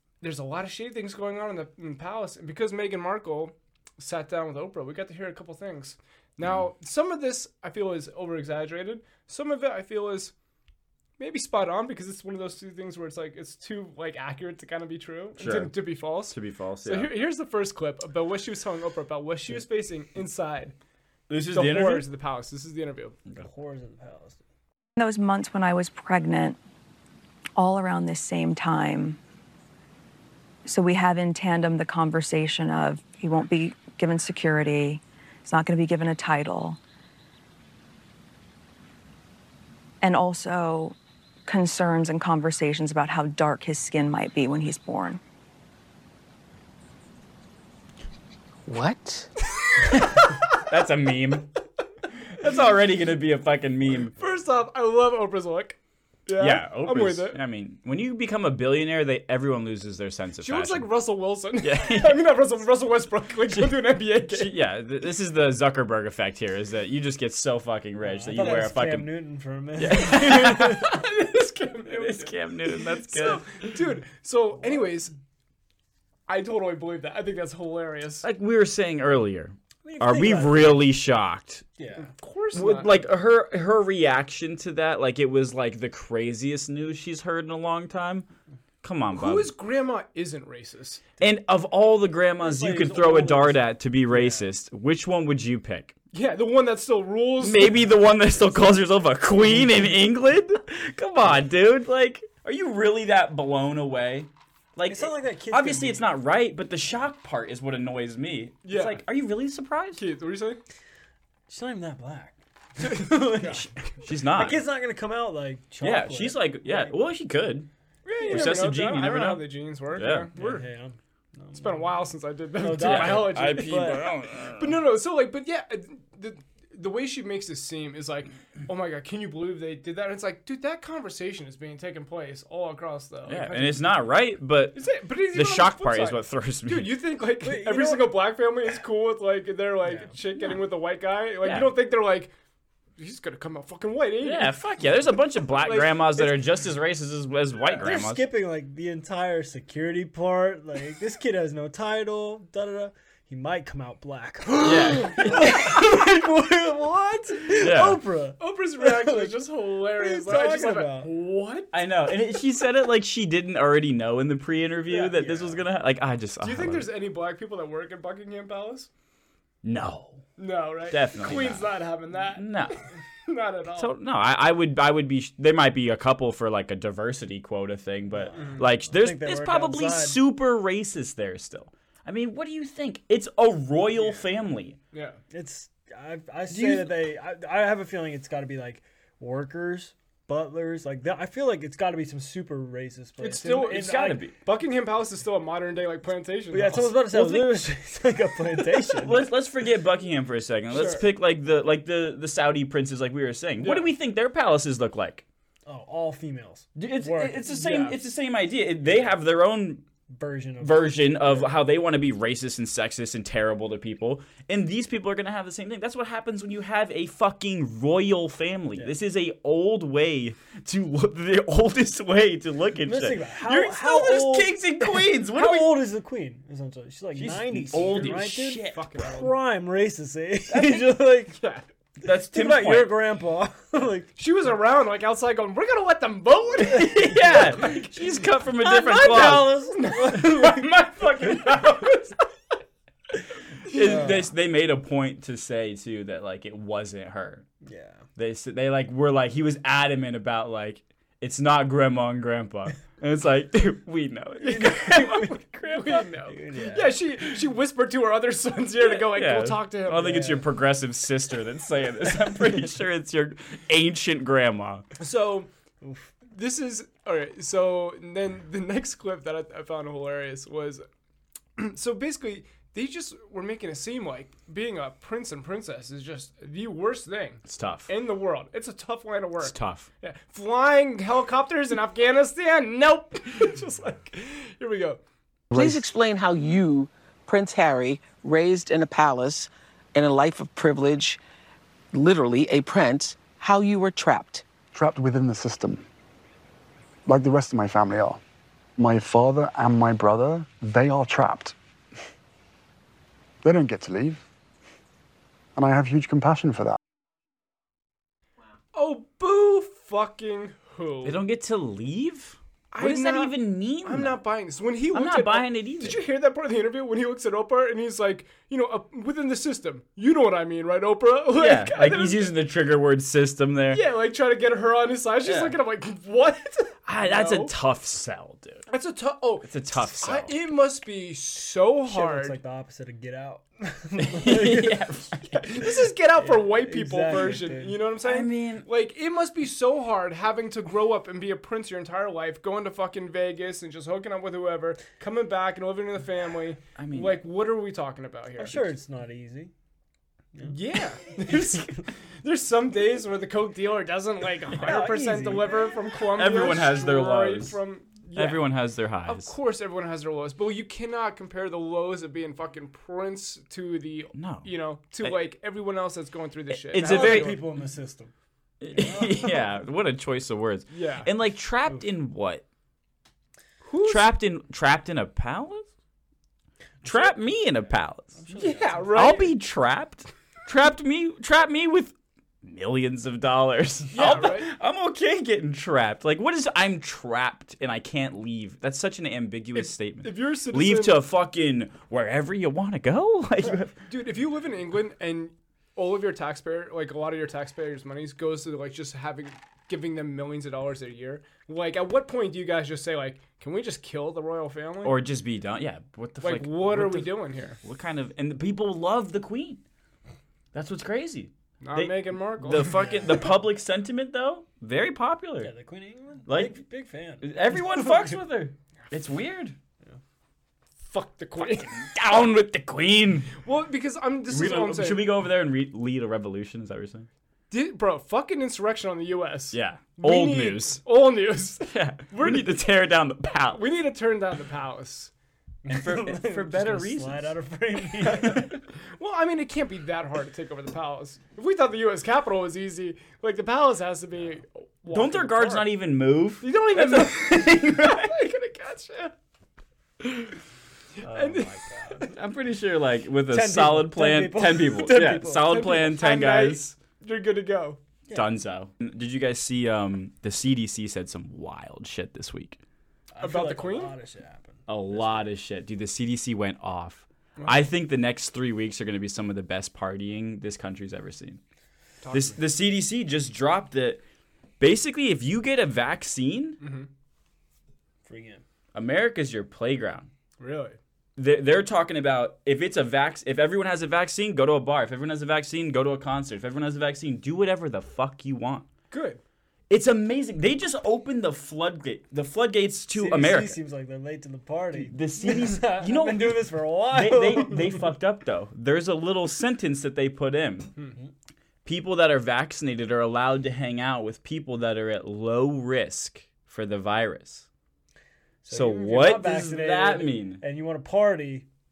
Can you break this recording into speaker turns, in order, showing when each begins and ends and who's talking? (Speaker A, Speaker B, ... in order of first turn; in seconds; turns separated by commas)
Speaker A: 0.2-10.3, Speaker A: 11.2-20.7, Speaker B: 15.4-17.1, Speaker B: 21.3-22.1, Speaker A: 21.5-23.2, Speaker C: 23.4-24.4, Speaker D: 24.9-26.6, Speaker D: 27.6-29.2, Speaker D: 30.6-36.8, Speaker D: 40.0-41.0, Speaker D: 41.5-45.2, Speaker E: 48.6-49.3, Speaker B: 49.9-51.5, Speaker B: 52.3-54.1, Speaker A: 54.1-57.4, Speaker B: 56.4-60.9, Speaker A: 60.4-64.5, Speaker B: 61.6-62.3, Speaker B: 63.5-69.1, Speaker C: 68.0-70.7, Speaker B: 69.8-71.0, Speaker A: 70.0-75.1, Speaker B: 71.9-73.7, Speaker A: 76.3-78.2, Speaker B: 78.2-81.6, Speaker C: 79.8-80.9, Speaker C: 81.8-82.1, Speaker A: 82.0-83.1, Speaker B: 82.5-88.3, Speaker B: 88.8-89.5, Speaker A: 89.1-91.0, Speaker B: 91.2-95.9, Speaker C: 92.4-94.5, Speaker A: 96.1-98.0, Speaker B: 97.4-110.0, Speaker C: 104.9-106.0, Speaker A: 108.6-109.0, Speaker A: 110.0-110.6, Speaker C: 111.5-113.7, Speaker A: 113.2-113.6, Speaker B: 113.4-114.6, Speaker C: 114.3-116.9, Speaker B: 115.8-117.7, Speaker A: 118.0-120.6, Speaker C: 118.2-118.6, Speaker B: 118.2-120.3, Speaker C: 120.3-121.9, Speaker A: 121.5-124.0, Speaker C: 122.6-124.0, Speaker B: 122.8-124.8, Speaker A: 124.6-133.8, Speaker B: 133.3-136.9, Speaker A: 134.7-142.3, Speaker C: 137.4-138.2, Speaker C: 139.9-140.2, Speaker B: 141.4-141.7, Speaker A: 143.0-144.5, Speaker B: 144.2-148.2, Speaker A: 145.6-146.4, Speaker C: 147.8-161.1, Speaker B: 154.6-156.0, Speaker B: 157.6-158.0, Speaker A: 158.4-161.7, Speaker B: 161.7-166.9, Speaker C: 164.9-165.6, Speaker A: 166.4-168.9, Speaker B: 169.6-170.2, Speaker A: 170.4-173.9, Speaker B: 170.9-171.7, Speaker B: 172.3-172.8, Speaker B: 173.8-184.8, Speaker C: 178.1-180.2, Speaker A: 178.3-178.6, Speaker A: 184.9-185.2, Speaker C: 185.3-194.2, Speaker B: 186.5-186.9, Speaker A: 193.2-197.0, Speaker B: 193.6-194.3, Speaker C: 196.5-199.2, Speaker B: 197.1-197.6, Speaker B: 198.9-205.2, Speaker A: 200.7-201.0, Speaker A: 203.6-203.9, Speaker C: 205.7-208.0, Speaker B: 206.8-209.8, Speaker C: 210.1-211.5, Speaker B: 210.6-225.8, Speaker C: 222.8-231.4, Speaker B: 227.1-228.9, Speaker A: 227.7-229.3, Speaker B: 230.5-230.9, Speaker A: 231.4-231.7, Speaker B: 232.0-233.0, Speaker C: 232.0-234.1, Speaker A: 234.2-237.8, Speaker B: 236.6-239.6, Speaker C: 236.9-237.7, Speaker A: 238.6-242.2, Speaker C: 238.6-240.7, Speaker A: 243.7-244.1, Speaker B: 243.7-247.4, Speaker C: 243.7-244.3, Speaker C: 247.6-248.0, Speaker B: 248.2-256.0, Speaker A: 254.4-260.3, Speaker C: 256.3-257.0, Speaker B: 258.8-264.9, Speaker C: 259.9-260.4, Speaker A: 265.0-265.5, Speaker C: 265.8-266.1, Speaker A: 266.3-270.8, Speaker A: 271.6-285.0, Speaker B: 277.5-277.9, Speaker B: 279.4-279.9, Speaker F: 285.5-285.8, Speaker E: 285.5-291.2, Speaker E: 291.9-294.4, Speaker F: 294.7-295.8, Speaker F: 297.1-298.2, Speaker F: 298.8-301.5, Speaker F: 303.4-304.2, Speaker F: 305.6-306.8, Speaker A: 308.7-311.2, Speaker B: 311.0-314.2, Speaker A: 312.7-322.4, Speaker B: 314.9-316.0, Speaker B: 321.4-323.8, Speaker A: 323.7-327.5, Speaker B: 325.2-325.6, Speaker B: 326.9-328.6, Speaker A: 328.7-332.4, Speaker B: 329.4-330.3, Speaker C: 331.9-334.8, Speaker B: 334.0-335.6, Speaker A: 335.4-348.7, Speaker C: 336.2-337.8, Speaker B: 338.0-338.7, Speaker B: 346.8-347.2, Speaker C: 348.4-349.5, Speaker A: 350.4-358.5, Speaker C: 354.6-355.6, Speaker B: 356.1-357.6, Speaker B: 358.1-359.3, Speaker A: 359.0-367.4, Speaker B: 364.1-365.2, Speaker B: 366.5-367.4, Speaker C: 366.8-368.1, Speaker B: 368.6-372.4, Speaker C: 368.7-369.4, Speaker A: 370.7-371.1, Speaker A: 373.6-374.1, Speaker B: 373.8-375.6, Speaker B: 376.8-378.2, Speaker C: 378.2-379.0, Speaker A: 378.3-379.3, Speaker B: 378.9-393.7, Speaker A: 383.9-384.5, Speaker A: 389.5-391.0, Speaker A: 393.8-404.9, Speaker B: 404.8-409.6, Speaker A: 406.2-407.6, Speaker B: 410.5-415.5, Speaker A: 411.6-413.1, Speaker C: 412.6-413.2, Speaker C: 415.4-418.0, Speaker B: 416.3-416.6, Speaker B: 417.2-419.6, Speaker A: 420.8-421.7, Speaker B: 421.4-423.4, Speaker A: 423.3-425.1, Speaker B: 424.3-427.1, Speaker A: 427.5-432.6, Speaker B: 429.5-430.8, Speaker B: 431.6-433.6, Speaker A: 433.5-435.1, Speaker C: 435.6-438.5, Speaker B: 435.7-437.3, Speaker A: 438.0-445.7, Speaker B: 444.9-448.1, Speaker A: 446.4-449.1, Speaker A: 450.0-450.3, Speaker A: 451.0-452.1, Speaker C: 451.0-452.1, Speaker B: 452.1-456.7, Speaker C: 453.3-455.6, Speaker A: 454.9-457.8, Speaker C: 458.1-458.3, Speaker B: 458.1-462.6, Speaker C: 463.1-465.3, Speaker A: 463.2-463.9, Speaker B: 464.7-471.4, Speaker A: 467.4-467.6, Speaker A: 472.0-472.4, Speaker B: 472.1-474.0, Speaker B: 474.6-476.6, Speaker A: 476.6-476.9, Speaker C: 478.0-478.4, Speaker B: 478.7-480.1, Speaker A: 480.4-480.8, Speaker B: 481.2-488.7, Speaker A: 488.9-489.2, Speaker B: 489.7-493.6, Speaker C: 492.9-497.9, Speaker B: 494.8-500.7, Speaker B: 501.6-507.4, Speaker C: 508.4-511.4, Speaker B: 508.5-510.4